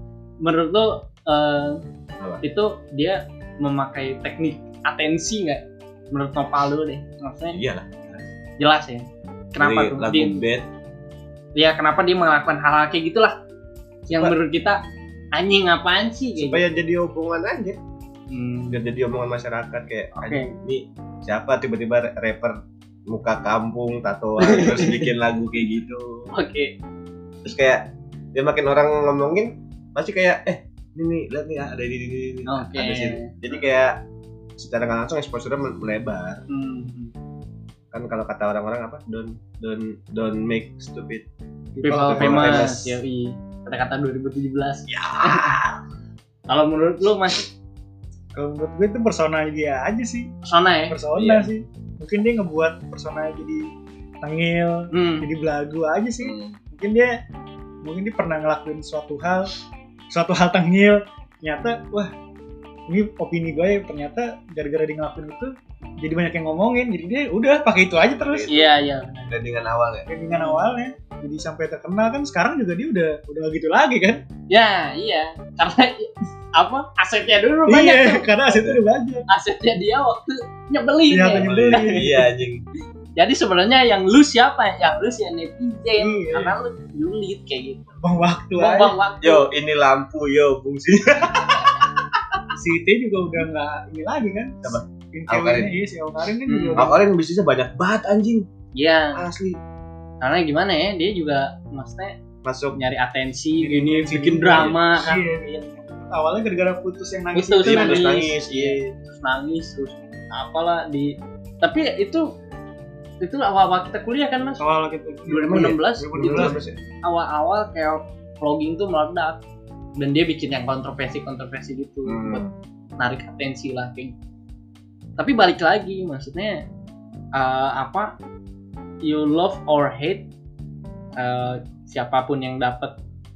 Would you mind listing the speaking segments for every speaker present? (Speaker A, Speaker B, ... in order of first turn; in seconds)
Speaker A: 0.4-1.8, 2.4-7.6, 8.6-10.4, 11.6-13.4, 14.1-14.8, 15.3-16.6, 18.3-18.8, 20.2-20.5, 24.4-25.1, 26.3-26.7, 32.5-33.3, 36.5-37.1, 41.8-45.6, 46.5-47.5, 50.4-51.0, 54.9-55.3, 68.5-69.3, 70.3-70.7, 74.5-78.2, 79.3-82.3, 83.2-88.0, 88.5-89.5, 91.3-91.8, 96.5-96.9, 98.8-99.2, 100.2-102.2, 102.8-105.7, 107.3-112.3, 113.2-114.7, 115.3-119.4, 120.0-122.4, 123.0-124.2, 125.2-126.6, 127.3-128.1, 129.0-130.3, 131.2-132.9
Speaker B: 7.5-8.2, 9.6-10.7, 16.4-17.8, 18.7-26.3, 27.4-34.0, 34.6-36.4, 37.9-41.2, 41.9-43.0, 44.9-45.8, 51.1-51.5, 56.2-56.6, 68.0-68.7, 69.3-70.1, 78.5-78.8, 81.4-82.6, 89.2-91.8, 94.6-95.7, 96.8-98.5, 99.2-99.6, 102.4-102.8, 104.5-104.8, 107.6-108.9, 115.5-116.8, 122.0-122.5
Speaker C: 41.8-42.7, 48.4-50.3, 50.9-57.2, 57.8-59.5, 60.1-62.1, 62.9-68.5, 70.1-74.2, 77.7-79.2, 81.1-82.1, 86.0-86.4, 88.0-89.0, 92.6-97.0, 103.6-108.1, 114.6-116.6